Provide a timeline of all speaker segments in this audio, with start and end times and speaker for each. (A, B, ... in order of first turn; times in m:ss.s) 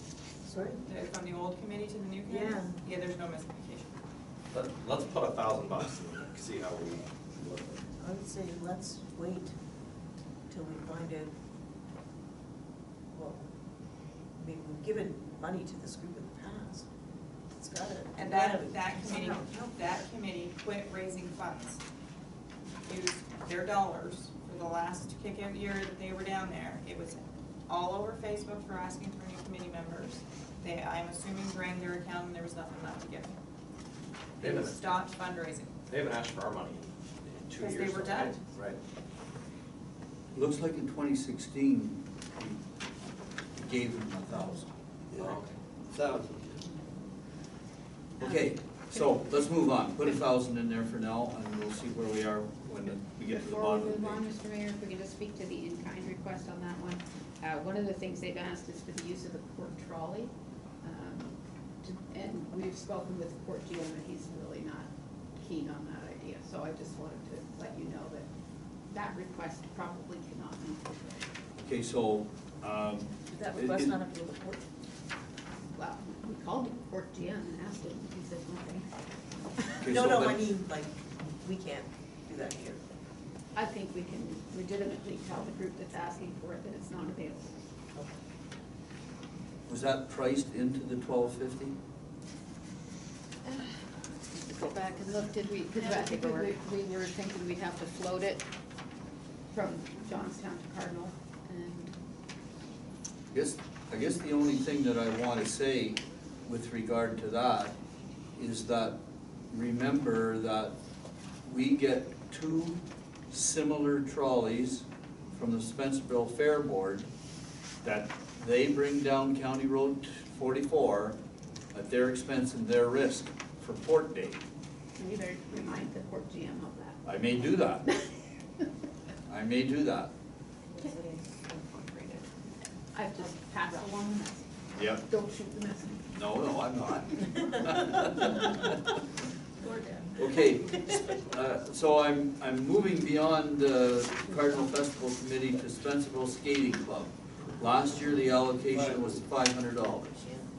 0:00.4-0:00.8 A
0:00.8-0:03.9 B
0:02.3-0:02.8 A
0:04.5-0:07.9 C
0:08.0-0:09.6 A
0:10.5-0:11.3 A
0:13.1-0:13.5 A
0:14.4-0:16.9 A
0:17.6-0:20.0 A
0:18.2-0:21.8 B
0:22.9-0:33.4 B
0:34.4-0:35.7 B
0:34.4-0:34.8 C
0:35.9-0:38.8 C
0:37.6-0:38.4 B
0:40.3-0:42.6 D
0:43.5-0:45.4 D
0:45.1-0:45.6 C
0:45.9-0:46.5 D
0:48.2-0:54.2 D
0:53.3-1:08.3 E
1:08.9-1:11.2 E
1:11.6-1:14.0 D
1:13.3-1:14.6 A
1:15.8-1:18.9 E
1:19.6-1:19.8 E
1:19.8-1:20.5 D
1:19.9-1:22.8 A
1:23.6-1:27.5 E
1:29.7-1:31.8 D
1:34.3-1:38.4 E
1:35.8-1:36.5 A
1:39.5-1:41.9 E
1:43.3-1:47.7 D
1:48.4-1:49.0 D
1:49.5-1:50.7 D
1:51.4-1:57.1 D
1:57.8-2:01.2 D
2:01.7-2:04.4 D
2:05.0-2:07.0 E
2:07.0-2:07.9 D
2:09.3-2:10.1 D
2:10.7-2:12.3 A
2:12.9-2:16.1 E
2:14.8-2:15.0 D
2:16.1-2:18.7 D
2:19.6-2:20.1 A
2:20.2-2:30.2 D